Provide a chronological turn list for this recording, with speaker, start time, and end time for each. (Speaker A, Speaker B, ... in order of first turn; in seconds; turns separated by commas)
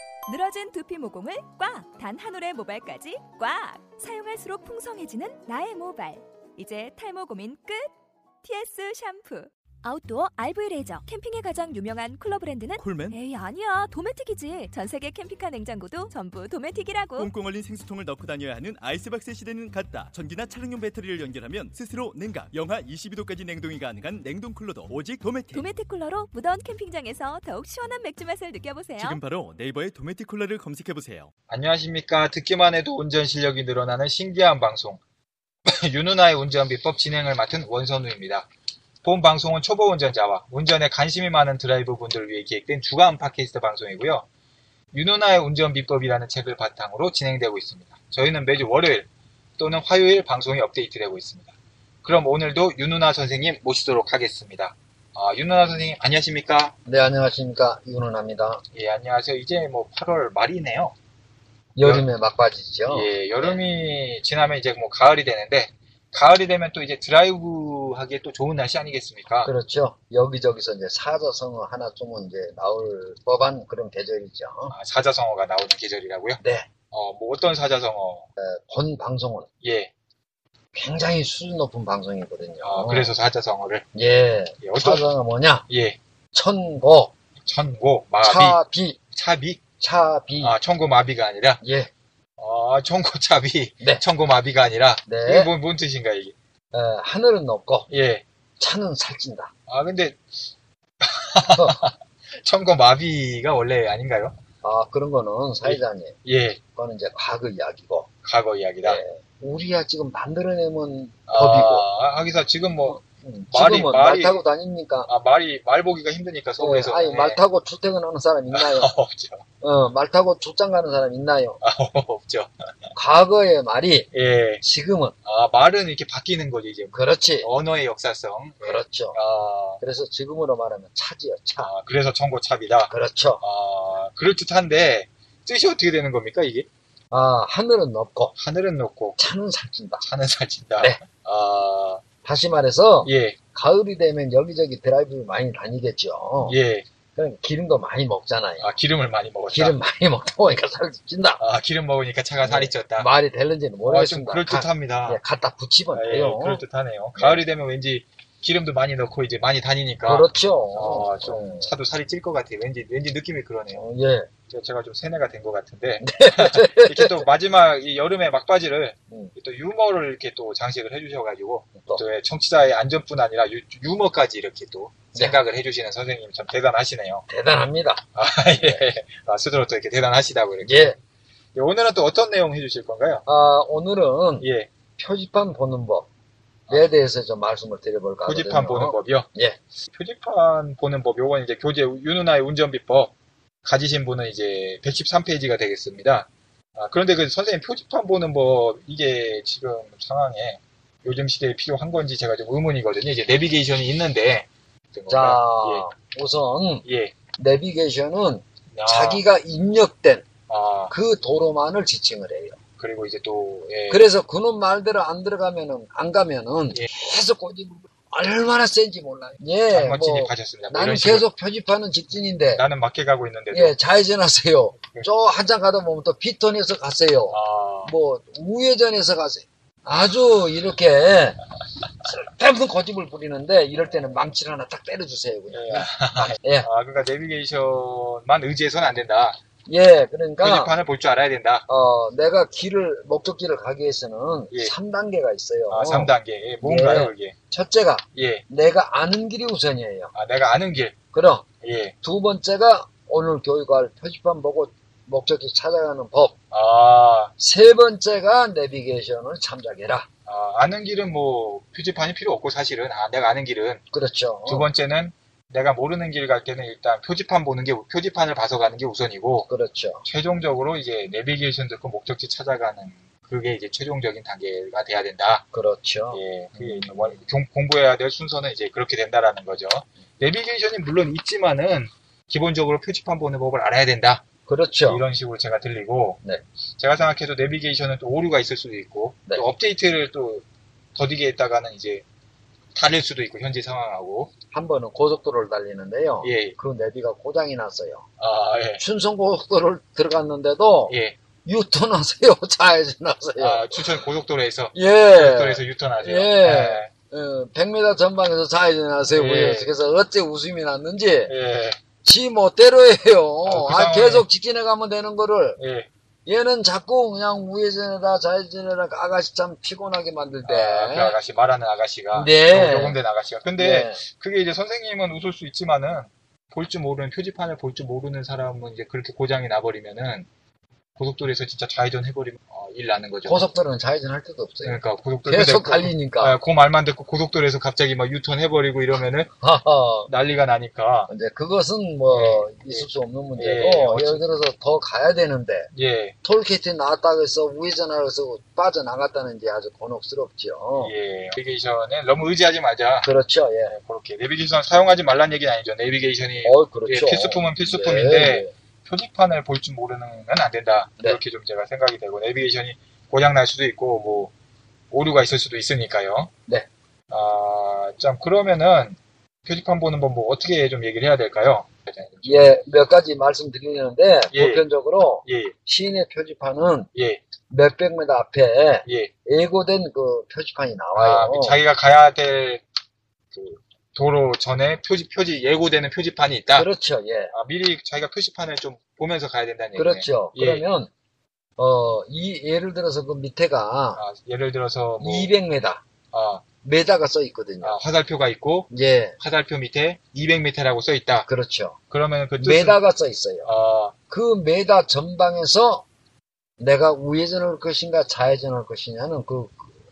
Speaker A: 0.3-7.9, Speaker A: 8.4-17.3, Speaker B: 12.8-13.2, Speaker B: 17.2-25.7, Speaker A: 25.5-29.2, Speaker B: 28.9-31.3, Speaker C: 31.5-35.0, Speaker C: 35.7-38.5, Speaker C: 39.0-44.3, Speaker C: 44.9-51.5, Speaker C: 52.0-56.8, Speaker D: 56.8-58.6, Speaker C: 58.7-60.9, Speaker D: 61.8-63.6, Speaker C: 62.9-69.5, Speaker D: 69.4-74.8, Speaker C: 74.7-78.2, Speaker D: 76.4-76.7, Speaker D: 78.4-79.5, Speaker C: 79.6-79.9, Speaker D: 80.7-83.1, Speaker C: 82.6-83.8, Speaker D: 83.9-85.7, Speaker C: 84.6-85.1, Speaker C: 85.7-86.0, Speaker D: 86.3-87.1, Speaker C: 87.4-88.6, Speaker D: 88.2-89.0, Speaker C: 89.1-89.6, Speaker D: 89.8-90.5, Speaker C: 90.4-91.6, Speaker D: 91.6-91.9, Speaker C: 92.4-96.3, Speaker D: 95.0-95.5, Speaker D: 96.7-97.9, Speaker C: 97.9-98.2, Speaker D: 98.6-99.5, Speaker C: 99.7-100.2, Speaker C: 101.0-104.4, Speaker D: 101.5-101.9, Speaker D: 104.6-106.2, Speaker C: 105.6-106.6, Speaker D: 106.8-108.1, Speaker C: 108.2-109.0, Speaker D: 108.8-111.8, Speaker C: 111.3-114.4, Speaker D: 112.8-115.1, Speaker C: 115.1-117.4, Speaker D: 116.6-118.9, Speaker C: 118.5-119.4, Speaker D: 119.6-121.6, Speaker C: 121.6-122.9, Speaker D: 122.9-124.1, Speaker C: 124.1-124.6, Speaker D: 124.6-125.1, Speaker C: 125.2-129.8, Speaker D: 126.9-127.5, Speaker D: 128.6-129.2, Speaker D: 129.8-131.7, Speaker C: 131.6-136.7, Speaker D: 132.9-133.4, Speaker D: 137.1-138.3, Speaker C: 138.4-139.2, Speaker D: 139.2-140.1, Speaker C: 140.0-142.0, Speaker D: 142.2-146.6, Speaker C: 143.0-143.4, Speaker C: 146.4-146.9, Speaker D: 147.2-148.7, Speaker C: 148.6-149.8, Speaker D: 149.5-151.4, Speaker C: 151.4-153.1, Speaker D: 152.4-156.6, Speaker C: 153.8-155.2, Speaker C: 155.9-163.8, Speaker D: 160.1-161.8, Speaker D: 163.7-164.3, Speaker C: 164.5-177.2, Speaker D: 166.0-167.3, Speaker D: 171.8-172.0, Speaker D: 175.1-175.4, Speaker D: 177.3-178.0, Speaker C: 178.1-181.0, Speaker D: 180.6-181.0, Speaker C: 181.6-183.2, Speaker D: 183.3-186.1, Speaker C: 184.4-184.7, Speaker D: 186.7-189.6, Speaker C: 188.2-189.3, Speaker C: 189.9-193.1, Speaker C: 193.6-205.9, Speaker D: 205.1-206.8, Speaker C: 206.8-207.2, Speaker D: 207.4-210.3, Speaker C: 208.7-209.2, Speaker C: 210.5-210.9, Speaker D: 210.9-212.6, Speaker C: 212.8-214.1, Speaker D: 213.9-222.7, Speaker C: 219.7-221.3, Speaker C: 222.5-223.8, Speaker D: 223.5-231.4, Speaker C: 227.3-227.9, Speaker D: 232.0-236.7, Speaker C: 235.5-239.4, Speaker D: 239.7-240.8, Speaker C: 240.4-241.7, Speaker D: 241.7-250.1, Speaker C: 245.7-247.3, Speaker C: 248.2-248.4, Speaker C: 250.1-251.0, Speaker D: 251.1-251.4, Speaker C: 251.6-251.9, Speaker D: 252.0-256.3, Speaker C: 256.5-257.3, Speaker D: 257.4-260.1, Speaker C: 260.2-263.8, Speaker D: 263.9-264.7, Speaker C: 264.4-269.5, Speaker D: 269.5-270.0, Speaker C: 270.0-275.5, Speaker D: 275.5-277.2, Speaker C: 276.1-284.2, Speaker D: 284.5-285.1, Speaker C: 284.9-286.2, Speaker C: 286.8-290.4, Speaker C: 290.9-292.0, Speaker C: 292.8-294.3, Speaker D: 294.5-298.1, Speaker C: 296.2-296.5, Speaker C: 298.2-298.8, Speaker D: 298.8-303.9, Speaker C: 300.9-301.2, Speaker C: 303.4-306.9, Speaker D: 304.7-311.3, Speaker C: 309.1-309.7, Speaker C: 311.3-311.8, Speaker D: 312.0-315.6, Speaker C: 313.4-314.2, Speaker C: 315.6-315.9, Speaker D: 316.2-321.2, Speaker C: 320.4-330.3, Speaker D: 322.1-323.0, Speaker D: 323.6-324.0, Speaker C: 331.0-333.4, Speaker D: 333.2-336.4, Speaker C: 334.6-339.3, Speaker D: 339.4-340.1, Speaker C: 340.1-341.1, Speaker D: 341.1-345.7, Speaker C: 342.1-344.3, Speaker C: 345.7-346.1, Speaker D: 346.2-350.9, Speaker C: 350.8-353.1, Speaker D: 353.0-353.7, Speaker C: 353.7-364.3, Speaker D: 356.4-358.5, Speaker C: 364.9-366.3, Speaker C: 367.1-372.4, Speaker D: 372.2-376.9, Speaker C: 374.3-374.6, Speaker C: 375.2-375.5, Speaker C: 376.9-377.2, Speaker D: 377.5-381.6, Speaker C: 378.9-379.1, Speaker C: 380.9-382.6, Speaker C: 383.3-386.7, Speaker D: 386.5-387.3, Speaker C: 387.3-390.6, Speaker D: 389.8-390.9, Speaker D: 391.6-394.0, Speaker C: 393.9-395.3, Speaker D: 395.0-395.8, Speaker C: 396.1-396.4, Speaker D: 396.6-397.8, Speaker C: 397.6-401.3, Speaker D: 398.7-399.2, Speaker D: 401.2-401.8, Speaker C: 401.9-402.8, Speaker D: 402.4-403.5, Speaker C: 403.4-403.9, Speaker D: 404.1-405.8, Speaker D: 406.6-409.7